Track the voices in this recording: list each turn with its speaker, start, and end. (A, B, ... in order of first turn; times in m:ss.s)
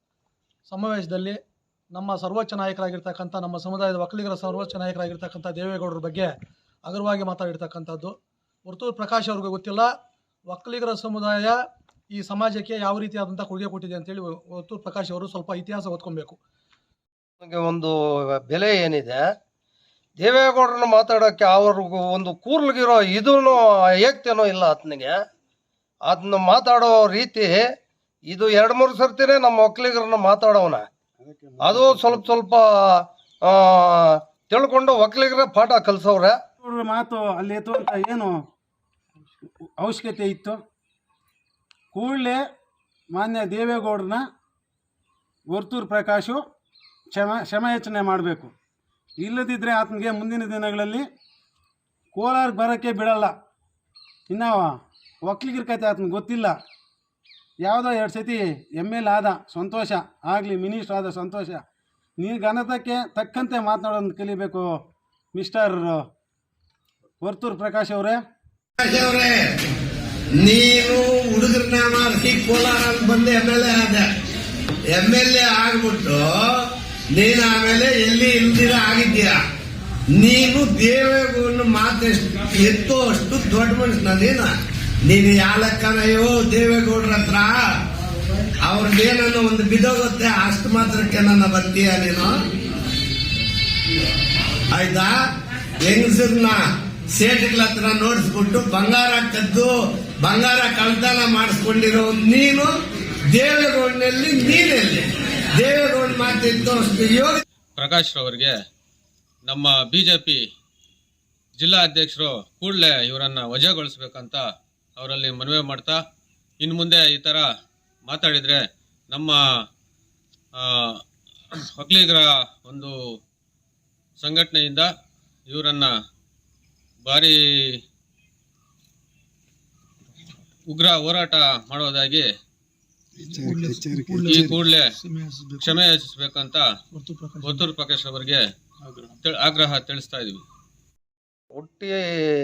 0:00.7-0:01.4 A
0:01.9-0:06.3 A
0:06.8-0:08.1 A
0:08.6-0:09.9 A
0:10.5-0:11.6 A
0:12.1-0:16.4 A
0:17.4-0:19.2 B
0:20.2-0:25.2 B
0:26.0-0:27.6 B
0:28.3-0:30.8 B
0:31.2-0:32.2 C
0:31.6-0:36.4 B
0:36.6-0:38.4 C
0:39.8-0:40.6 C
0:41.9-0:42.4 C
0:43.1-0:44.2 C
0:45.5-0:46.4 C
0:47.1-0:48.5 C
0:49.2-0:51.0 C
0:52.1-0:53.3 C
0:54.3-0:56.5 C
0:57.6-1:01.6 C
1:02.2-1:04.7 C
1:05.3-1:06.0 C
1:07.2-1:08.2 C
1:08.8-1:09.5 D
1:10.4-1:14.1 D
1:14.9-1:19.4 D
1:20.1-1:27.6 D
1:28.6-1:32.3 D
1:34.7-1:35.2 D
1:35.8-1:42.7 D
1:43.3-1:47.4 D
1:47.8-1:48.5 E
1:49.4-1:50.4 E
1:51.6-1:54.4 E
1:55.0-1:56.0 E
1:56.6-1:57.4 E
1:58.0-1:59.4 E
2:00.6-2:01.0 E
2:01.7-2:02.9 E
2:04.2-2:04.9 E
2:05.5-2:05.9 E
2:07.0-2:07.8 E
2:10.7-2:12.3 E
2:13.3-2:15.7 A
2:13.3-2:14.5 C
2:14.2-2:14.9 E
2:15.6-2:16.6 E
2:16.9-2:17.6 A
2:17.4-2:18.4 E
2:19.2-2:20.4 E
2:21.5-2:22.0 B